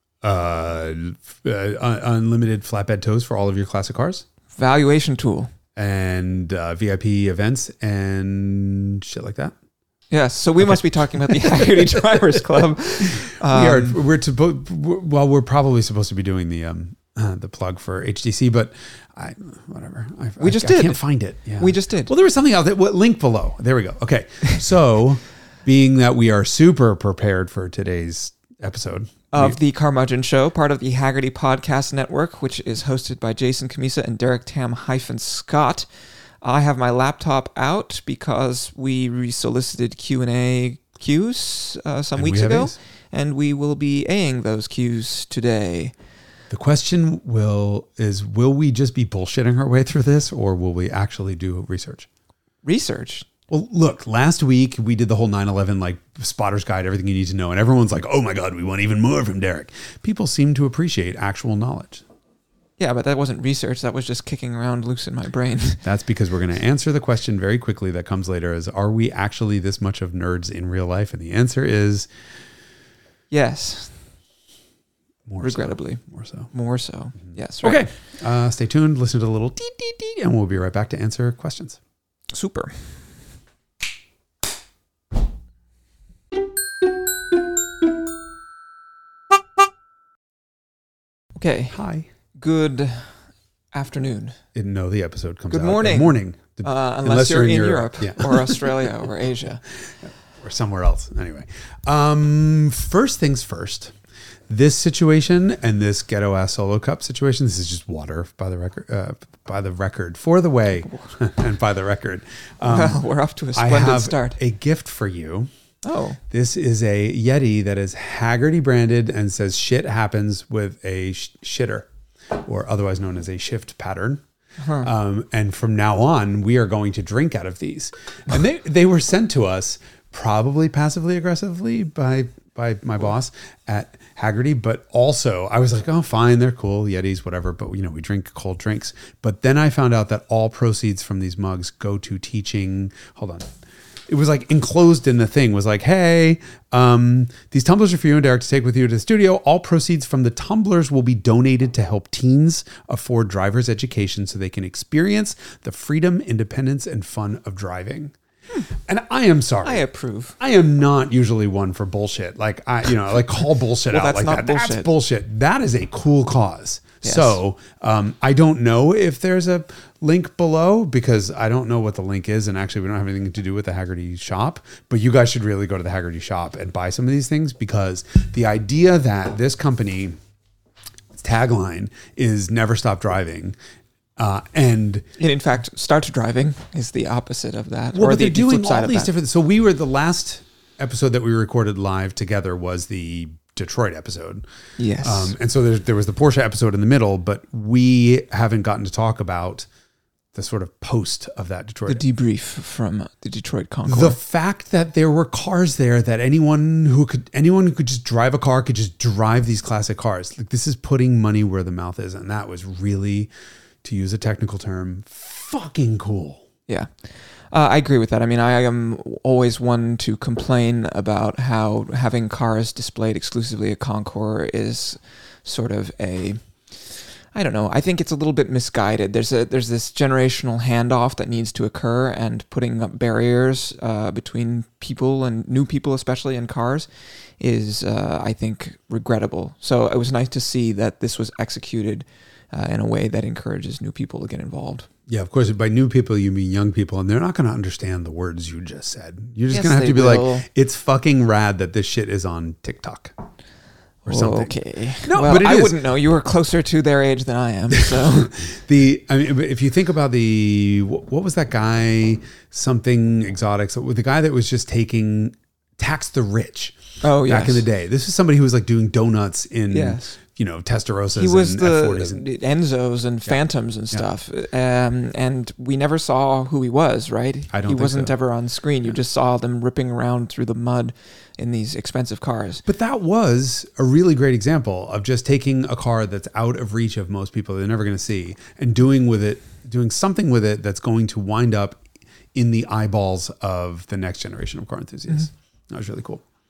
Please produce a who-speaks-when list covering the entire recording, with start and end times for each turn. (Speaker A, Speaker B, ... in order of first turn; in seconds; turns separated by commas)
Speaker A: 0.2-4.2, Speaker B: 4.6-5.5, Speaker A: 5.8-9.6, Speaker B: 10.1-14.0, Speaker A: 11.4-11.6, Speaker A: 13.1-29.6, Speaker B: 20.4-21.0, Speaker B: 21.6-22.1, Speaker B: 29.3-35.9, Speaker B: 36.4-45.9, Speaker A: 42.2-42.8, Speaker A: 46.5-52.1, Speaker B: 52.6-53.3, Speaker A: 53.5-62.0, Speaker B: 62.8-65.8, Speaker A: 65.8-72.1, Speaker B: 73.3-74.0, Speaker A: 75.3-76.5, Speaker B: 75.4-77.9, Speaker A: 77.6-81.8, Speaker B: 82.3-83.1, Speaker B: 91.3-91.8, Speaker A: 91.7-92.1, Speaker B: 92.3-93.2, Speaker B: 93.7-94.4, Speaker A: 94.5-98.9, Speaker B: 95.5-99.6, Speaker A: 99.7-104.0, Speaker A: 104.5-113.0, Speaker B: 112.7-114.4, Speaker A: 113.5-115.5, Speaker B: 115.8-116.2, Speaker A: 116.3-124.2, Speaker B: 124.6-124.9, Speaker A: 124.8-143.5, Speaker A: 144.1-158.2, Speaker A: 158.8-159.9, Speaker B: 159.6-160.4, Speaker A: 160.4-180.2, Speaker B: 163.9-164.9, Speaker B: 167.0-167.4, Speaker A: 181.1-183.6, Speaker A: 184.2-185.0, Speaker B: 185.2-189.1, Speaker A: 187.9-194.4, Speaker B: 194.8-195.3, Speaker A: 195.0-199.7, Speaker A: 200.3-202.0, Speaker B: 201.9-204.2, Speaker A: 203.9-213.3, Speaker A: 213.8-216.5, Speaker B: 216.7-244.9, Speaker A: 245.1-253.1, Speaker B: 249.5-250.5, Speaker A: 254.1-255.8, Speaker B: 254.1-258.3, Speaker A: 257.8-272.2, Speaker B: 267.0-267.7, Speaker B: 269.7-270.2, Speaker B: 271.1-282.6, Speaker A: 277.5-278.1, Speaker A: 282.7-291.8, Speaker A: 292.3-296.2